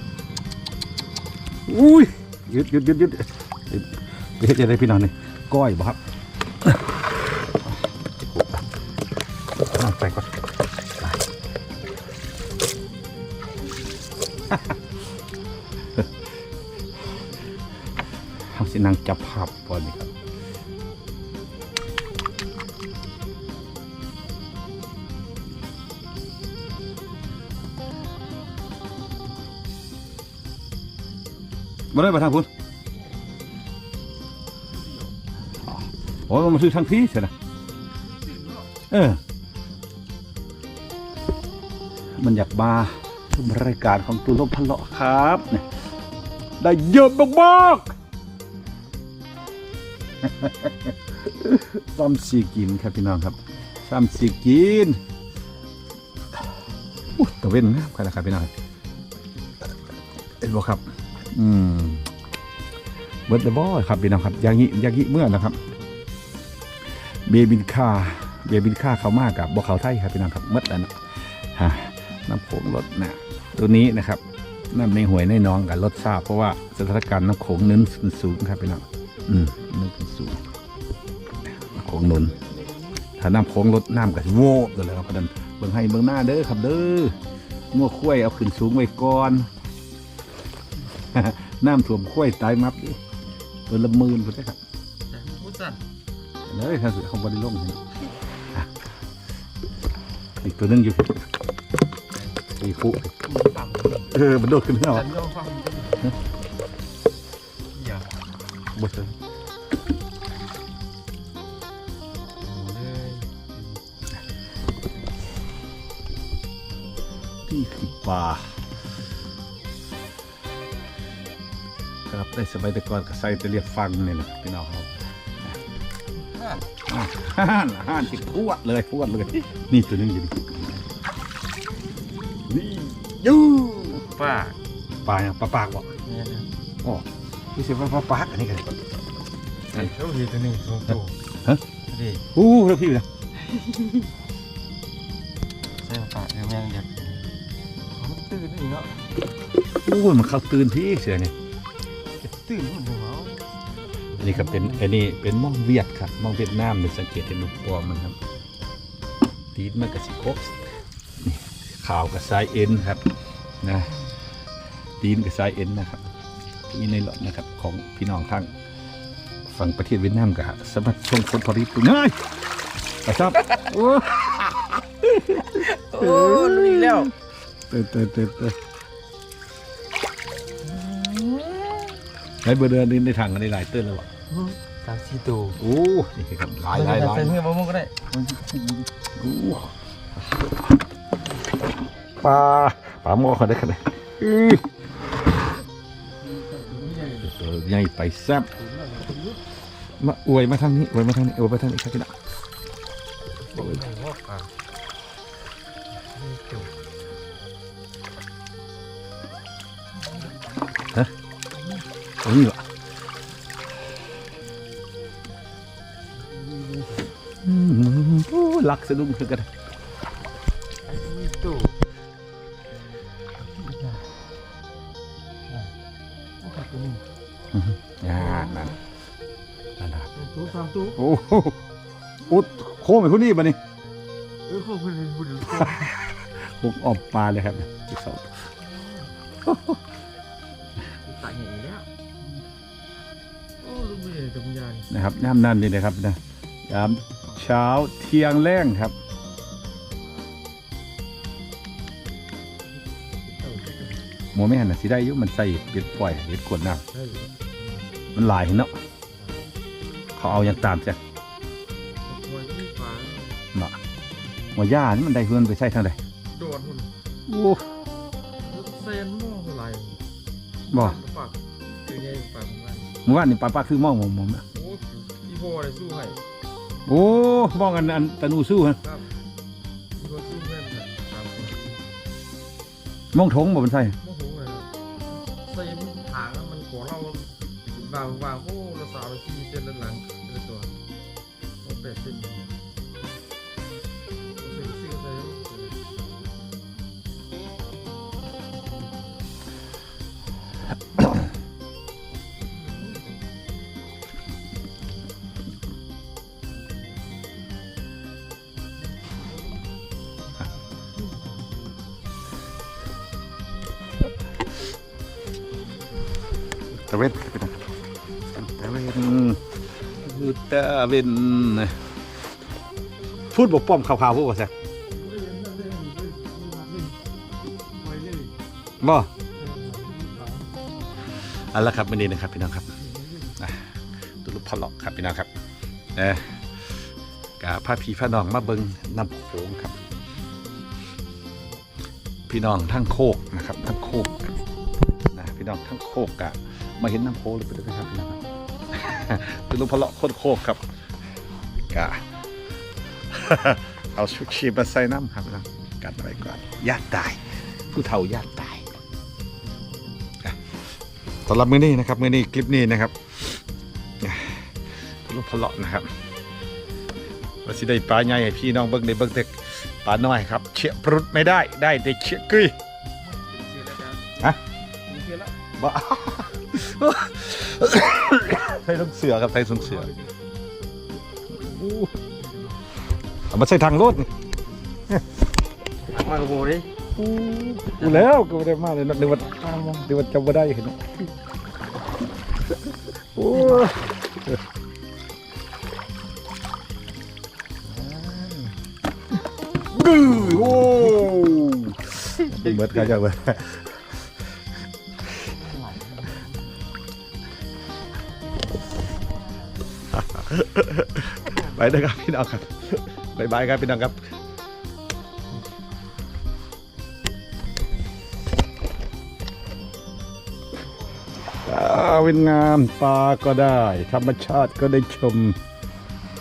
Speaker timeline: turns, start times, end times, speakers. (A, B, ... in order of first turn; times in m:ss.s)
0:01.7-0:06.0 A
0:08.2-0:08.6 A
0:09.6-0:10.4 A
0:11.0-0:11.2 A
0:18.4-0:20.1 A
0:31.9-0:32.5 A
0:34.7-0:35.1 B
0:35.7-0:37.3 A
0:38.2-0:38.7 B
0:38.9-0:39.2 A
0:42.2-0:45.7 A
0:46.6-0:48.0 A
0:50.2-0:55.0 A
0:57.1-0:58.5 A
1:00.4-1:02.1 A
1:03.3-1:05.6 A
1:07.2-1:20.4 A
1:21.5-1:22.4 A
1:22.1-1:23.0 B
1:23.2-1:27.2 A
1:27.7-1:29.5 A
1:31.1-1:33.0 A
1:33.7-1:34.6 A
1:35.1-1:35.8 B
1:36.4-1:37.8 A
1:40.4-1:41.2 A
1:42.5-1:43.1 A
1:43.2-1:44.1 B
1:44.1-1:45.1 A
1:44.8-1:46.2 B
1:47.7-1:48.1 B
1:48.8-1:49.1 A
1:52.4-1:53.8 B
1:57.5-1:58.6 A
2:02.1-2:05.0 A
2:06.2-2:06.7 B
2:06.9-2:10.5 A
2:12.5-2:14.0 A
2:14.0-2:14.6 B
2:15.0-2:15.9 A
2:16.0-2:16.5 B
2:16.8-2:18.8 A
2:19.7-2:21.2 B
2:21.9-2:22.2 B
2:22.3-2:23.0 A
2:23.4-2:24.1 B
2:25.8-2:27.3 B
2:27.9-2:29.1 B
2:29.8-2:31.3 A
2:32.2-2:33.6 B
2:34.2-2:34.8 B
2:34.2-2:38.2 A
2:39.5-2:40.7 A
2:41.2-2:43.0 A
2:43.6-2:44.0 A
2:45.0-2:46.1 A
2:46.7-2:48.5 A
2:49.5-2:52.2 A
2:53.0-2:57.1 A
2:55.4-2:57.1 B
2:57.7-2:58.6 A
3:00.8-3:01.8 A
3:02.4-3:04.1 A
3:04.3-3:05.6 B
3:05.6-3:07.4 A
3:06.7-3:08.1 B
3:08.1-3:09.7 A
3:12.2-3:14.7 A
3:16.0-3:17.3 B
3:17.2-3:18.5 A
3:18.6-3:19.4 B
3:20.0-3:22.2 A
3:23.4-3:24.5 B
3:26.0-3:26.7 B
3:30.0-3:30.4 B
3:31.6-3:31.8 B
3:32.2-3:32.6 A
3:36.2-3:37.1 B
3:37.4-3:39.5 A
3:40.8-3:41.8 B
3:43.4-3:44.1 B
3:46.4-3:47.0 B
3:47.5-3:48.8 A
3:48.1-3:48.8 B
3:49.8-3:50.1 A
3:50.1-3:51.0 B
3:51.0-3:51.6 A
3:52.2-3:53.6 A
3:54.4-3:56.0 B
3:55.5-3:58.4 A
3:58.6-3:59.1 B
3:59.4-3:59.8 A
4:01.0-4:01.9 B
4:03.6-4:04.9 B
4:04.9-4:08.9 A
4:12.9-4:14.0 B
4:14.3-4:16.8 A
4:16.9-4:17.9 B
4:18.1-4:18.7 A
4:20.2-4:21.0 A
4:20.3-4:20.5 B
4:22.0-4:23.4 B
4:24.6-4:26.0 A
4:26.3-4:26.9 B
4:27.3-4:27.6 A
4:28.4-4:30.0 B
4:30.7-4:32.9 B
4:30.7-4:31.0 A
4:33.0-4:34.4 A
4:34.5-4:36.2 B
4:36.9-4:38.8 A
4:40.0-4:41.6 B
4:43.1-4:44.0 A
4:44.0-4:44.7 B
4:45.3-4:50.7 B
4:51.6-4:52.5 B
4:54.4-4:55.8 B
5:02.5-5:03.0 B
5:16.7-5:17.6 A
5:18.3-5:21.8 A
5:23.3-5:24.5 A
5:24.9-5:27.0 B
5:27.8-5:28.3 B
5:28.8-5:29.1 A
5:29.4-5:30.5 B
5:31.3-5:32.7 A
5:32.8-5:33.4 B
5:33.4-5:35.3 A
5:35.9-5:36.8 A
5:37.4-5:39.8 A
5:42.3-5:44.4 A
5:45.1-5:48.2 A
5:48.7-5:50.6 A
5:51.7-5:52.0 A
5:53.1-5:58.7 A
6:01.2-6:03.0 A
6:04.0-6:05.9 A
6:07.4-6:12.5 A
6:13.0-6:15.4 B
6:15.6-6:19.9 A
6:19.4-6:20.1 B
6:21.3-6:21.9 A
6:22.0-6:22.6 B
6:23.3-6:24.1 A
6:25.8-6:26.7 B
6:27.0-6:30.8 A
6:27.8-6:28.1 B
6:29.1-6:29.9 B
6:33.1-6:34.4 A
6:33.2-6:33.9 B
6:37.7-6:38.5 A
6:39.7-6:44.0 A
6:42.3-6:42.7 B
6:45.2-6:46.5 B
6:49.9-6:54.0 A
6:51.4-6:51.7 B
7:01.4-7:05.4 A